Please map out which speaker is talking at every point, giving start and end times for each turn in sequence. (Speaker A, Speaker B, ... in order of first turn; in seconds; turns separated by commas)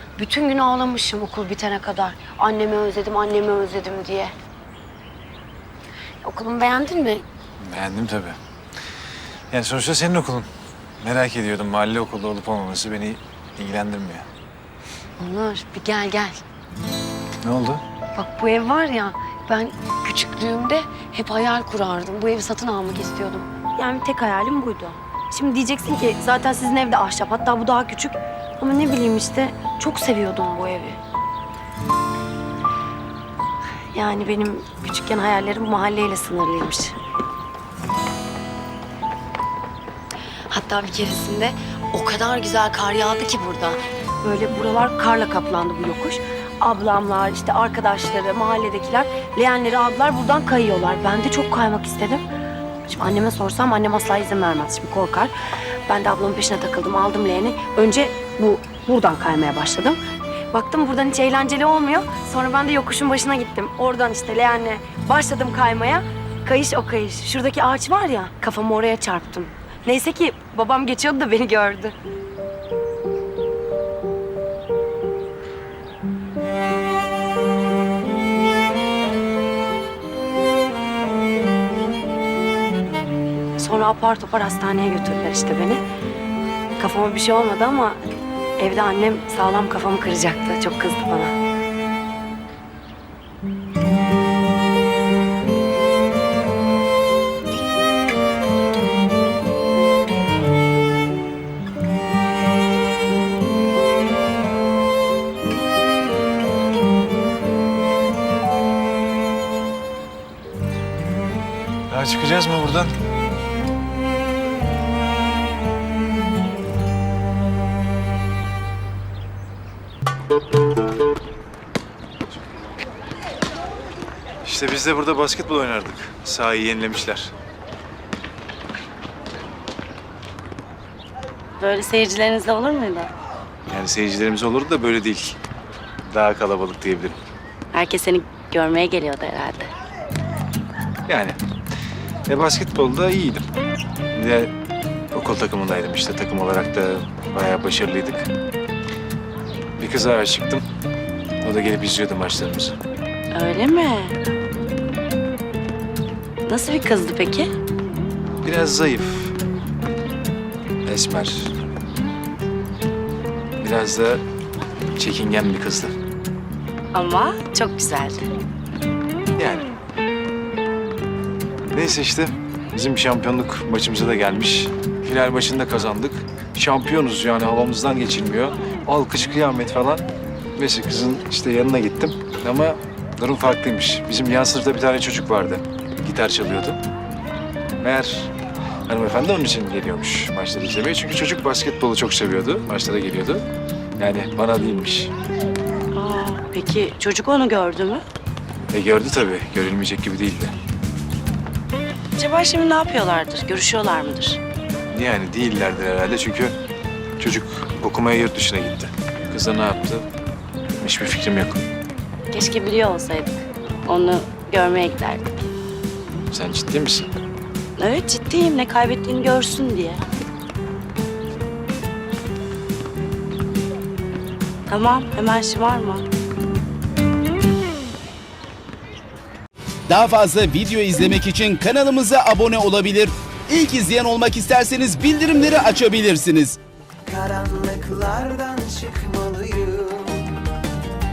Speaker A: 0.1-4.3, Speaker A: 6.2-7.2, Speaker B: 7.6-8.4, Speaker B: 9.5-14.3, Speaker A: 15.2-16.4, Speaker B: 17.4-17.8, Speaker A: 18.1-31.0, Speaker A: 33.9-37.0, Speaker A: 40.5-52.2, Speaker A: 52.8-55.3, Speaker A: 55.9-60.0, Speaker A: 60.5-71.9, Speaker A: 83.5-85.8, Speaker A: 86.8-88.0, Speaker A: 88.6-91.3, Speaker B: 111.9-112.9, Speaker B: 124.4-127.3, Speaker C: 131.6-133.1, Speaker B: 133.7-135.4, Speaker B: 136.0-137.2, Speaker C: 137.7-139.7, Speaker B: 141.1-141.4, Speaker B: 142.3-143.5, Speaker B: 144.1-144.5, Speaker B: 145.1-148.3, Speaker B: 149.8-150.6, Speaker B: 151.4-152.8, Speaker C: 153.3-154.2, Speaker C: 156.5-157.5, Speaker B: 158.4-159.3, Speaker B: 160.8-161.5, Speaker B: 163.6-164.2, Speaker B: 164.9-165.9, Speaker C: 166.9-168.2, Speaker B: 169.4-169.7, Speaker B: 171.7-186.8, Speaker B: 187.8-188.3, Speaker B: 188.9-193.4, Speaker B: 194.0-195.1, Speaker C: 195.9-198.0, Speaker B: 198.7-200.5, Speaker C: 202.2-204.4, Speaker B: 204.9-206.5, Speaker B: 207.2-210.1, Speaker B: 210.8-211.6, Speaker C: 212.3-215.3, Speaker B: 216.3-217.2, Speaker C: 217.8-220.0, Speaker C: 224.7-226.0, Speaker D: 229.9-236.6, Speaker E: 237.0-240.3